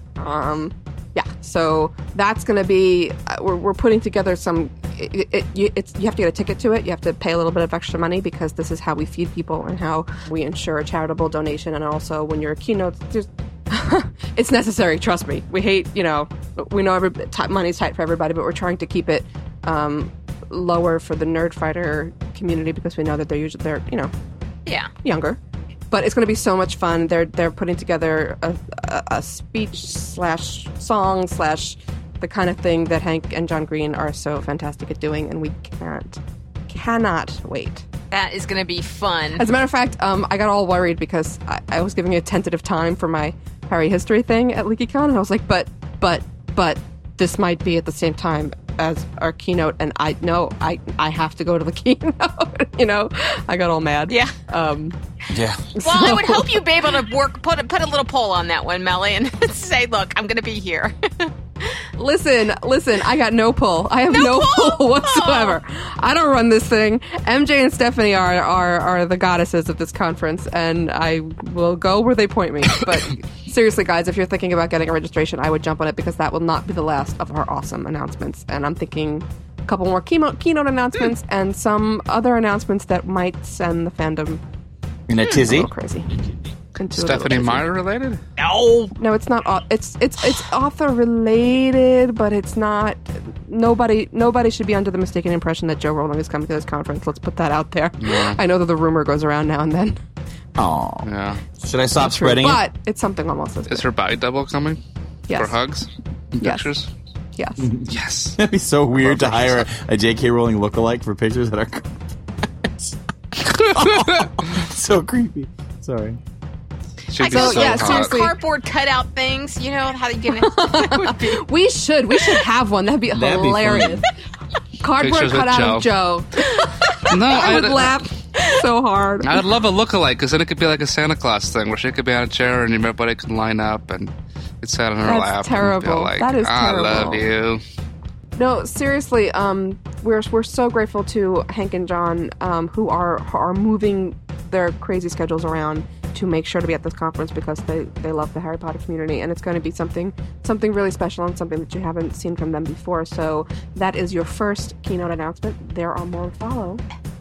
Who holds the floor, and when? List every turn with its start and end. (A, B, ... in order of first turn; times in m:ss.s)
0:00.2-0:24.1 A
0:24.7-0:24.9 B
0:25.0-0:25.4 A
0:25.9-0:37.9 A
0:38.1-0:39.4 B
0:39.4-0:55.0 A
0:54.1-0:54.4 B
0:55.3-0:55.6 C
0:55.8-0:56.6 A
0:55.8-1:01.8 B
1:02.0-1:24.4 A
1:04.1-1:05.6 B
1:25.1-1:25.7 C
1:25.2-1:26.1 A
1:26.8-1:27.7 A
1:27.0-1:28.2 D
1:28.4-1:28.9 B
1:28.6-1:28.9 C
1:29.0-1:40.0 A
1:38.0-1:38.4 D
1:40.6-1:41.1 C
1:41.0-1:41.4 D
1:41.6-1:42.6 C
1:42.0-1:43.8 A
1:43.7-1:46.9 D
1:45.3-1:45.6 A
1:46.4-1:46.7 A
1:47.4-1:47.7 A
1:47.6-1:51.9 C
1:47.9-1:48.4 D
1:49.0-1:49.6 D
1:53.5-1:56.2 C
1:53.8-1:54.3 D
1:57.1-1:58.2 D
1:57.2-2:01.4 B
1:57.2-1:58.3 A
2:00.3-2:04.1 A
2:03.1-2:04.0 C
2:04.8-2:09.5 A
2:05.0-2:05.9 D
2:06.6-2:07.0 B
2:07.1-2:08.0 D
2:09.2-2:14.1 D
2:14.6-2:17.6 D
2:15.0-2:17.3 A
2:18.4-2:36.8 A